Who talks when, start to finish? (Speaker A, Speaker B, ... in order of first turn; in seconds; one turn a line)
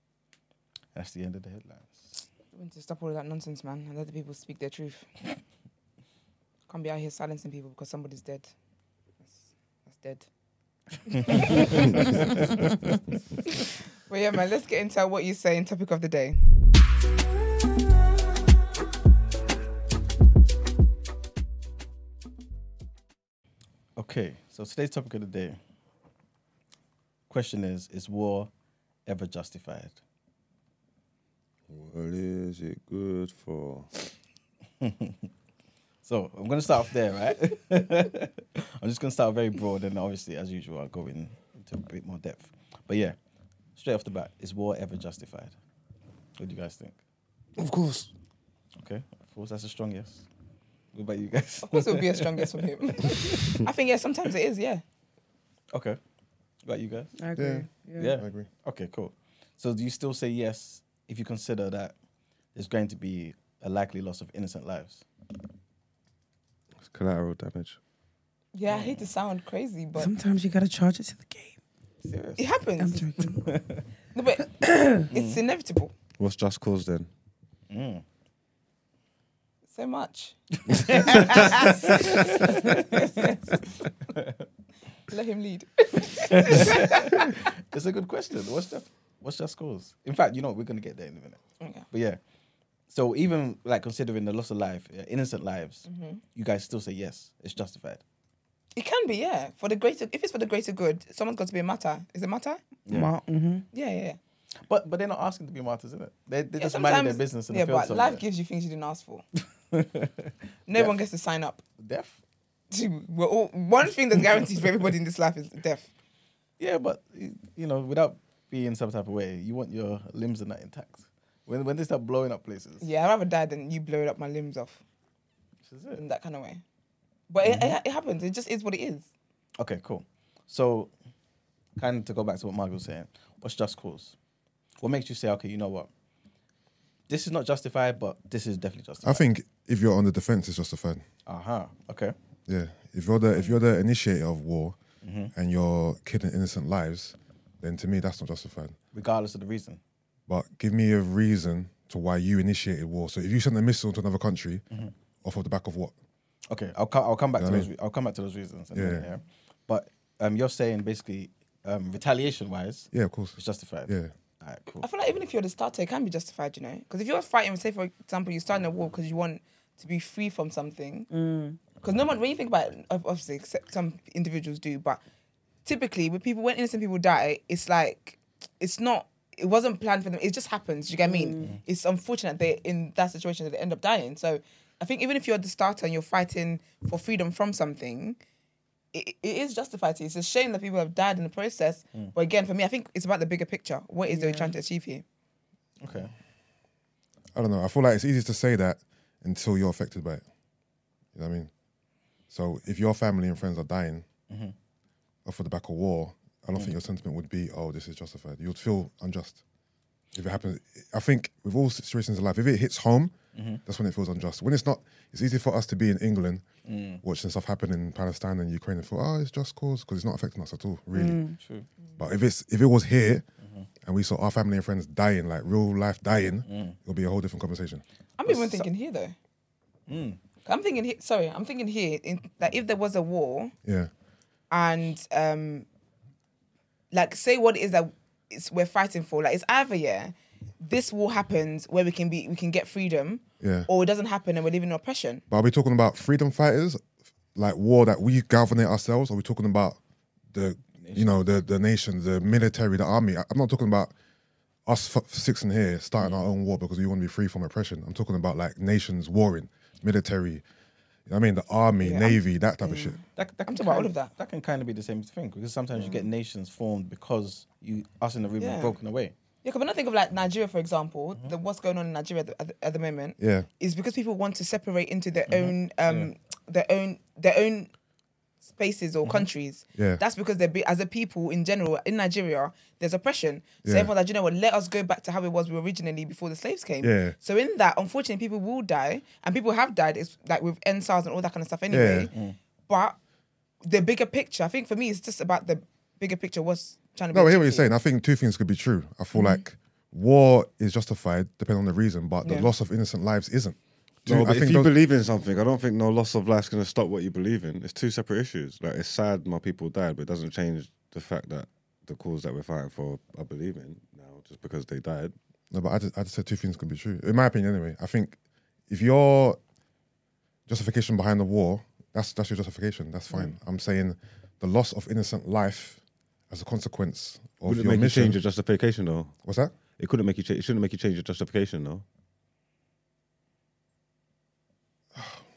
Speaker A: 0.9-2.3
Speaker B: 2.5-5.1
Speaker B: 6.7-8.5
Speaker B: 9.2-10.3
Speaker B: 11.1-12.4
Speaker A: 11.1-12.7
Speaker B: 14.1-16.4
Speaker A: 24.0-25.6
Speaker A: 27.3-28.5
Speaker A: 29.1-30.0
Speaker C: 31.7-33.9
Speaker A: 34.8-35.3
Speaker A: 36.0-43.2
Speaker A: 43.8-45.6
Speaker A: 46.4-47.0
Speaker C: 47.6-48.1
Speaker A: 48.8-50.3
Speaker A: 50.9-53.6
Speaker B: 51.6-54.8
Speaker A: 55.7-56.0
Speaker A: 56.6-57.2
Speaker D: 57.2-58.2
Speaker E: 57.4-58.5
Speaker A: 58.0-62.0
Speaker A: 62.5-65.1
Speaker C: 66.8-67.8
Speaker B: 68.5-70.1
Speaker A: 68.7-69.0
Speaker D: 70.0-71.6
Speaker A: 72.0-72.5
Speaker B: 72.4-73.1
Speaker D: 72.8-73.6
Speaker A: 73.4-73.8
Speaker B: 74.1-74.5
Speaker D: 74.4-75.1
Speaker B: 75.1-75.9
Speaker A: 75.1-75.4
Speaker C: 76.2-77.1
Speaker A: 77.7-78.0
Speaker B: 79.7-80.4
Speaker A: 80.7-84.4
Speaker B: 80.9-81.7
Speaker C: 81.2-81.5
Speaker B: 85.1-87.3
Speaker A: 86.3-91.4
Speaker B: 91.6-91.9
Speaker A: 91.9-92.2
Speaker A: 92.9-98.0
Speaker B: 95.9-96.2
Speaker B: 98.8-102.6
Speaker A: 102.9-103.1
Speaker D: 102.9-103.7
Speaker B: 103.7-104.2
Speaker A: 104.6-108.2
Speaker B: 106.6-109.3
Speaker A: 109.7-111.0
Speaker B: 110.7-111.6
Speaker A: 111.8-112.2
Speaker B: 112.7-115.9
Speaker A: 116.6-122.9
Speaker B: 122.8-124.8
Speaker A: 125.7-126.0
Speaker B: 126.0-126.6
Speaker B: 127.3-129.1
Speaker A: 127.4-127.8
Speaker A: 129.6-130.9
Speaker A: 131.8-134.2
Speaker A: 134.8-135.9
Speaker A: 137.1-139.2
Speaker E: 139.0-141.0
Speaker A: 141.3-142.2
Speaker E: 142.5-144.8
Speaker A: 145.0-145.3
Speaker E: 145.4-148.8
Speaker A: 148.9-149.8
Speaker E: 150.3-154.6
Speaker E: 155.2-155.9
Speaker A: 156.5-164.9
Speaker E: 157.4-157.7
Speaker E: 158.8-159.1
Speaker E: 162.9-164.1
Speaker B: 164.8-171.1
Speaker D: 171.1-171.6
Speaker B: 171.8-175.0
Speaker B: 175.7-188.2
Speaker D: 181.0-181.6
Speaker B: 188.9-195.0
Speaker D: 194.1-194.6
Speaker A: 195.8-196.1
Speaker E: 197.3-200.2
Speaker E: 201.2-201.5
Speaker E: 202.3-204.1
Speaker A: 204.3-204.6
Speaker E: 205.2-209.4
Speaker E: 210.1-216.4
Speaker A: 213.3-213.6
Speaker A: 216.7-217.0
Speaker E: 217.0-221.2
Speaker D: 220.9-221.4
Speaker A: 221.4-221.7
Speaker E: 222.0-223.2
Speaker A: 223.4-223.7
Speaker E: 223.8-227.8
Speaker A: 226.5-226.8
Speaker B: 228.2-229.2
Speaker A: 228.3-228.7
Speaker A: 229.9-230.2
Speaker B: 230.4-233.5
Speaker E: 233.7-233.9
Speaker B: 234.5-235.7
Speaker B: 236.9-245.2
Speaker E: 243.4-243.7
Speaker E: 245.3-246.8
Speaker E: 247.3-249.8
Speaker E: 250.3-253.9
Speaker A: 250.8-251.2
Speaker E: 254.7-260.4
Speaker A: 256.0-256.3
Speaker E: 261.1-263.0
Speaker B: 261.8-264.1
Speaker A: 263.1-269.1
Speaker B: 268.4-268.8
Speaker B: 269.4-277.7
Speaker E: 273.2-273.5
Speaker A: 275.3-276.1
Speaker B: 278.4-292.1
Speaker A: 279.0-279.3
Speaker E: 279.8-280.0
Speaker E: 283.6-283.9
Speaker E: 286.8-287.2
Speaker E: 291.7-292.1
Speaker A: 292.1-292.4
Speaker B: 292.7-293.0
Speaker B: 293.6-297.7
Speaker E: 297.1-304.7
Speaker B: 299.1-299.4
Speaker B: 302.2-302.5
Speaker C: 304.1-315.1
Speaker E: 315.5-318.2
Speaker E: 318.7-319.4
Speaker E: 320.5-328.2
Speaker C: 327.4-329.1
Speaker E: 329.2-329.6
Speaker C: 329.7-331.8